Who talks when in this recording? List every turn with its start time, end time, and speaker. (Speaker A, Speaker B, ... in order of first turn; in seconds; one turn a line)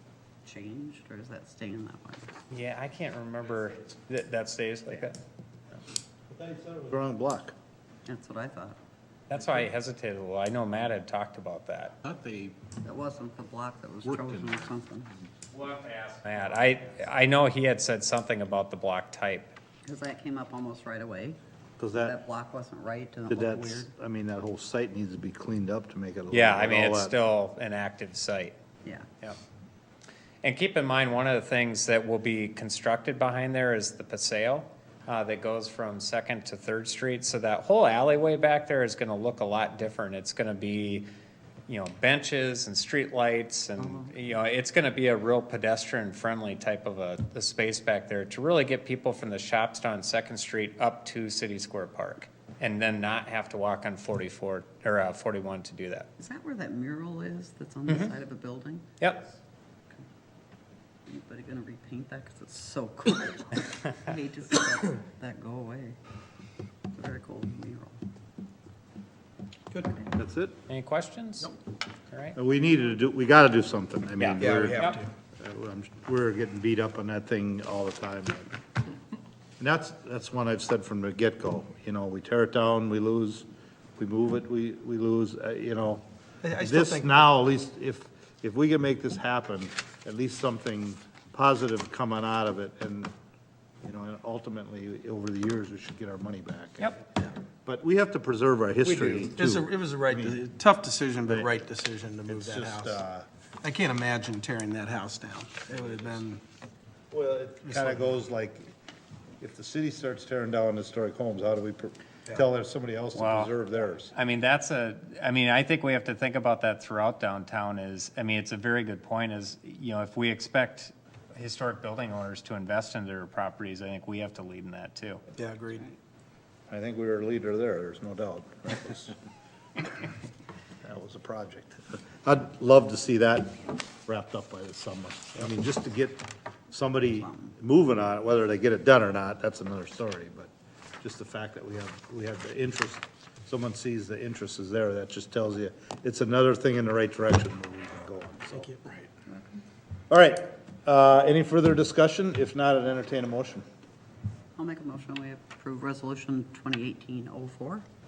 Speaker A: 0.5-2.3
Speaker B: 2.5-5.2
Speaker C: 6.3-7.5
Speaker A: 8.1-8.8
Speaker B: 9.3-12.0
Speaker A: 12.8-15.1
Speaker B: 15.5-19.5
Speaker A: 19.9-21.4
Speaker C: 21.8-22.2
Speaker A: 21.9-23.9
Speaker C: 23.3-27.1
Speaker B: 26.3-28.6
Speaker B: 30.4-41.1
Speaker B: 41.7-56.1
Speaker A: 43.8-44.1
Speaker A: 56.2-58.9
Speaker B: 59.0-59.3
Speaker A: 61.1-66.0
Speaker A: 66.9-68.0
Speaker C: 70.1-70.6
Speaker B: 70.7-71.5
Speaker B: 72.1-72.4
Speaker C: 72.3-78.5
Speaker B: 74.2-75.0
Speaker D: 74.4-75.0
Speaker C: 79.6-83.5
Speaker C: 84.0-86.0
Speaker D: 86.4-87.2
Speaker C: 86.6-93.1
Speaker C: 93.8-97.0
Speaker C: 97.7-100.4
Speaker B: 98.8-99.3
Speaker D: 99.3-103.0
Speaker C: 102.3-103.3
Speaker D: 103.6-106.4
Speaker C: 107.1-108.7
Speaker D: 107.7-108.0
Speaker C: 109.4-114.1
Speaker B: 113.2-113.5
Speaker B: 114.1-125.2
Speaker D: 125.4-125.9
Speaker C: 126.7-129.2
Speaker C: 130.8-140.5
Speaker A: 137.1-137.5
Speaker C: 141.0-148.7
Speaker D: 148.6-149.1
Speaker A: 149.3-149.6
Speaker C: 150.1-153.7
Speaker A: 154.6-157.9